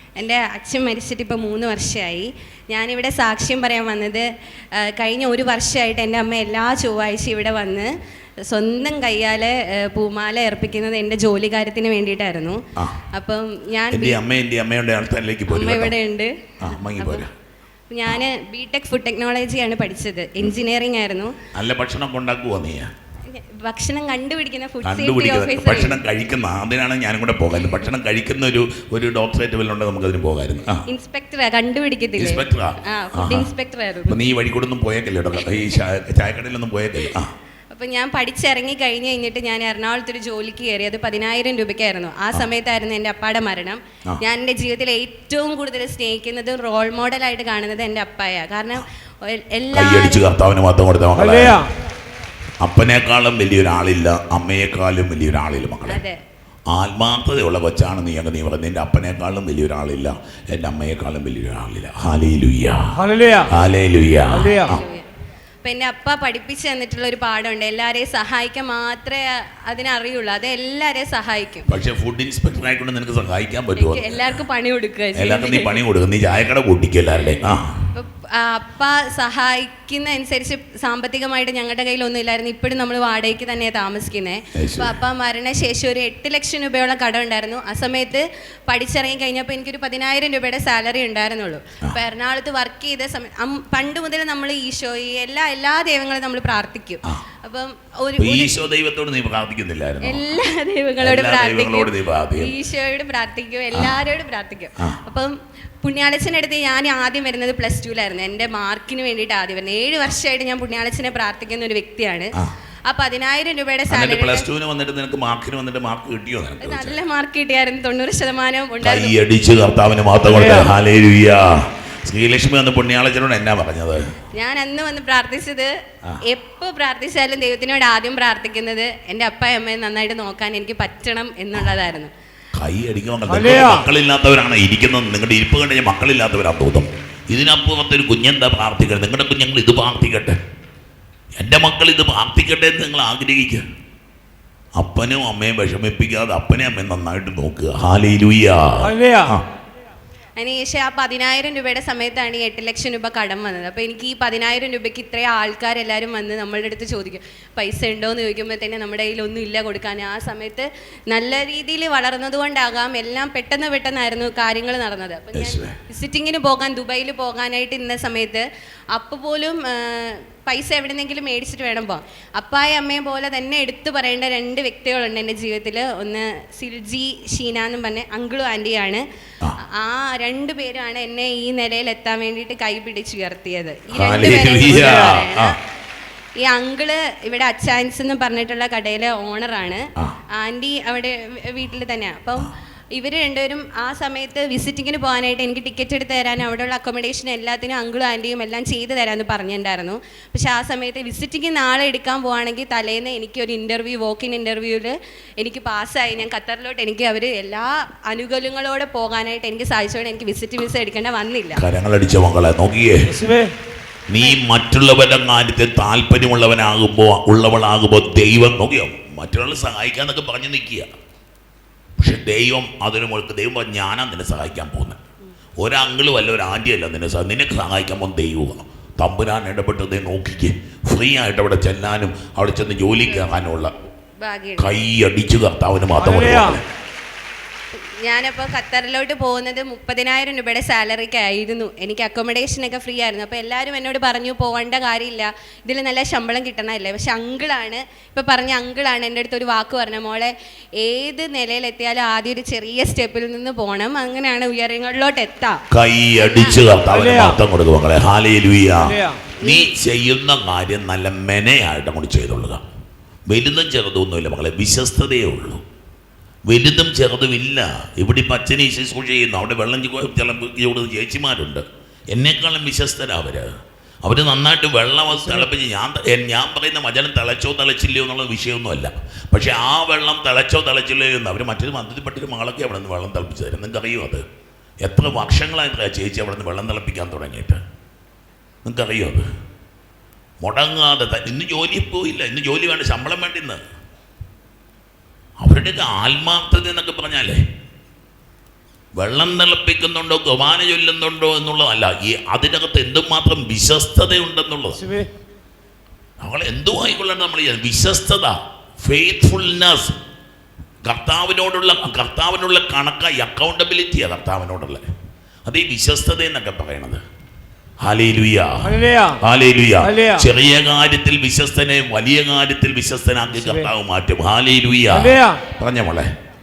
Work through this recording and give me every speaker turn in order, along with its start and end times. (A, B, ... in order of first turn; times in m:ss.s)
0:00.2-0:07.9 A
0:08.5-0:14.2 A
0:13.9-0:15.9 B
0:15.5-0:17.2 A
0:16.6-0:17.3 B
0:17.9-0:21.4 A
0:21.5-0:22.9 B
0:23.3-0:26.0 A
0:24.8-0:30.8 B
0:30.9-0:34.2 A
0:32.2-0:33.5 B
0:34.1-0:37.3 B
0:35.4-0:35.7 A
0:37.7-0:50.2 A
0:49.7-0:51.6 B
0:51.2-0:51.7 C
0:52.6-0:56.0 B
0:55.8-0:56.2 A
0:56.7-1:02.9 B
1:03.0-1:03.5 C
1:03.5-1:04.8 B
1:04.3-1:04.7 C
1:04.3-1:05.1 A
1:05.6-1:11.7 A
1:11.7-1:14.4 B
1:13.8-1:15.8 A
1:15.1-1:17.8 B
1:17.9-1:38.6 A
1:24.5-1:25.0 B
1:38.2-1:40.4 B
1:40.0-1:52.3 A
1:41.0-1:42.5 B
1:43.7-1:44.0 B
1:52.9-1:54.5 A
1:53.9-1:57.0 B
1:56.6-1:59.1 A
1:58.8-2:04.0 B
2:00.2-2:00.7 C
2:04.4-2:05.7 A
2:06.3-2:12.1 A
2:12.5-2:20.4 B
2:13.2-2:13.8 C
2:21.4-2:23.6 B
2:24.8-2:29.4 B
2:28.8-2:29.3 C
2:30.4-2:59.0 A
2:45.3-2:45.8 B
2:59.7-3:05.6 A
3:03.9-3:05.5 B
3:06.4-3:31.6 A
3:31.6-3:33.1 B
3:33.1-3:33.5 C
3:34.1-3:40.9 B
3:42.0-3:45.0 B
3:45.6-3:53.7 B
3:54.2-3:54.8 A
3:54.6-3:56.6 B
3:56.0-3:56.6 C
3:57.7-4:15.6 A
4:15.7-4:22.6 B
4:16.2-4:16.7 A
4:16.9-4:17.4 C
4:18.8-4:19.2 C
4:19.4-4:19.7 A
4:23.3-4:25.6 B
4:26.5-4:33.5 B
4:34.0-4:44.2 B
4:44.8-4:47.6 B
4:48.6-4:49.3 B
4:50.4-4:53.6 B
4:55.4-4:57.4 B
4:59.0-5:04.8 B
5:04.8-5:05.1 C
5:06.2-5:10.0 B
5:10.8-5:14.8 B
5:15.4-5:17.0 B
5:17.8-5:26.1 B
5:18.6-5:19.2 C
5:19.8-5:20.2 C
5:24.9-5:25.4 C